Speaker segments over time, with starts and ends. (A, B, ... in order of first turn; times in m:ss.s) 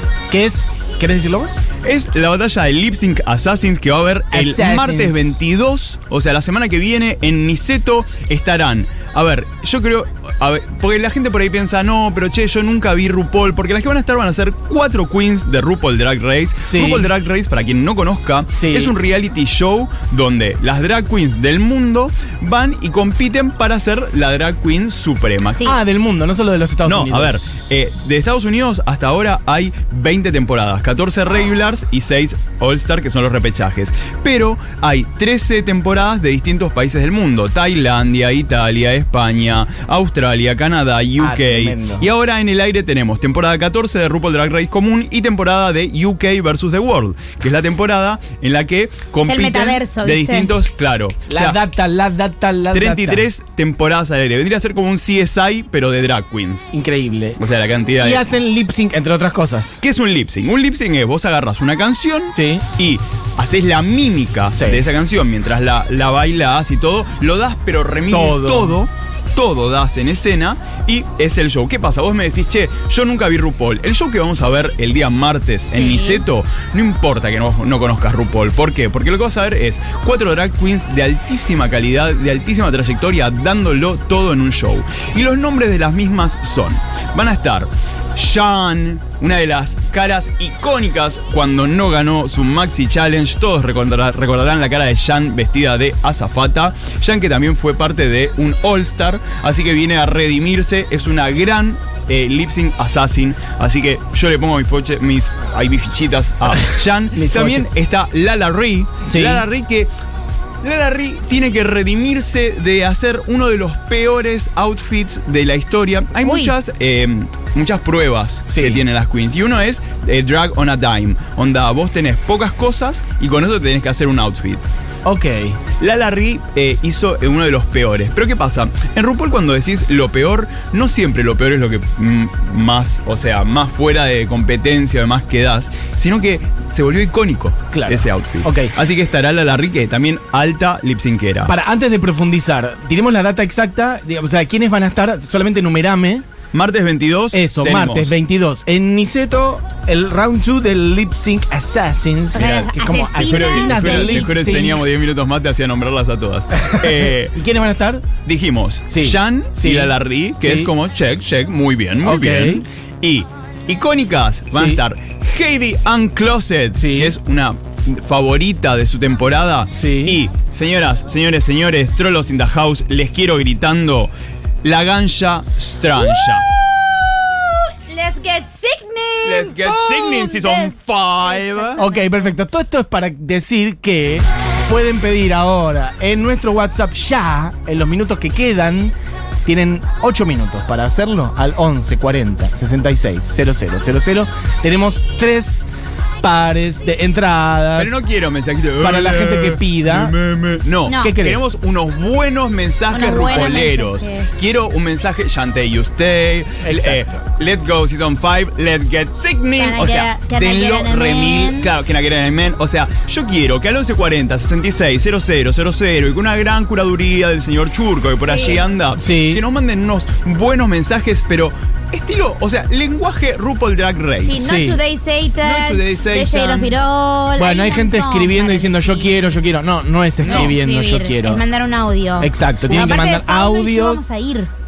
0:00.3-0:01.6 A
0:01.8-0:25.6 B
0:04.3-0:05.4 A
0:16.6-0:17.1 A
0:18.6-0:19.0 A
0:25.5-0:25.8 C
0:25.6-0:27.4 A
0:26.8-0:51.6 B
0:41.2-0:42.1 A
0:49.2-0:50.5 C
0:51.3-0:53.3 A
0:52.7-0:56.7 B
0:56.7-0:57.4 A
0:57.4-0:58.3 B
0:58.0-0:59.8 A
0:59.8-1:49.9 B
1:02.3-1:02.6 A
1:04.6-1:04.9 A
1:08.1-1:08.8 A
1:15.7-1:16.3 C
1:47.1-1:47.8 A
1:49.1-1:49.4 A
1:50.6-2:04.6 B
1:56.2-1:56.6 C
1:58.5-1:58.8 A
2:05.0-2:05.6 A
2:05.8-2:21.5 B
2:17.7-2:18.7 A
2:21.4-2:26.2 A
2:26.5-2:28.2 B
2:27.3-2:34.8 A
2:32.3-2:34.7 C
2:32.3-2:37.4 B
2:36.7-2:38.1 A
2:38.2-2:56.5 B
2:38.9-2:40.7 A
2:42.0-2:42.7 A
2:44.5-2:44.8 A
2:46.8-2:47.2 A
2:49.7-2:50.2 A
2:57.9-3:02.1 C
2:59.2-3:01.8 B
3:01.8-3:08.9 A
3:09.4-3:15.7 A
3:16.2-3:18.0 A
3:17.8-3:44.4 B
3:18.8-3:20.2 A
3:20.9-3:21.2 C
3:21.0-3:21.6 A
3:22.9-3:24.4 C
3:26.6-3:27.2 A
3:29.6-3:31.7 C
3:38.2-3:38.6 C
3:39.0-3:39.4 A
3:44.2-3:49.2 C
3:44.4-3:44.8 A
3:45.4-3:46.8 B
3:47.4-3:51.4 A
3:50.2-3:54.5 C
3:50.2-3:50.6 B
3:52.2-3:54.0 A
3:52.7-3:53.0 B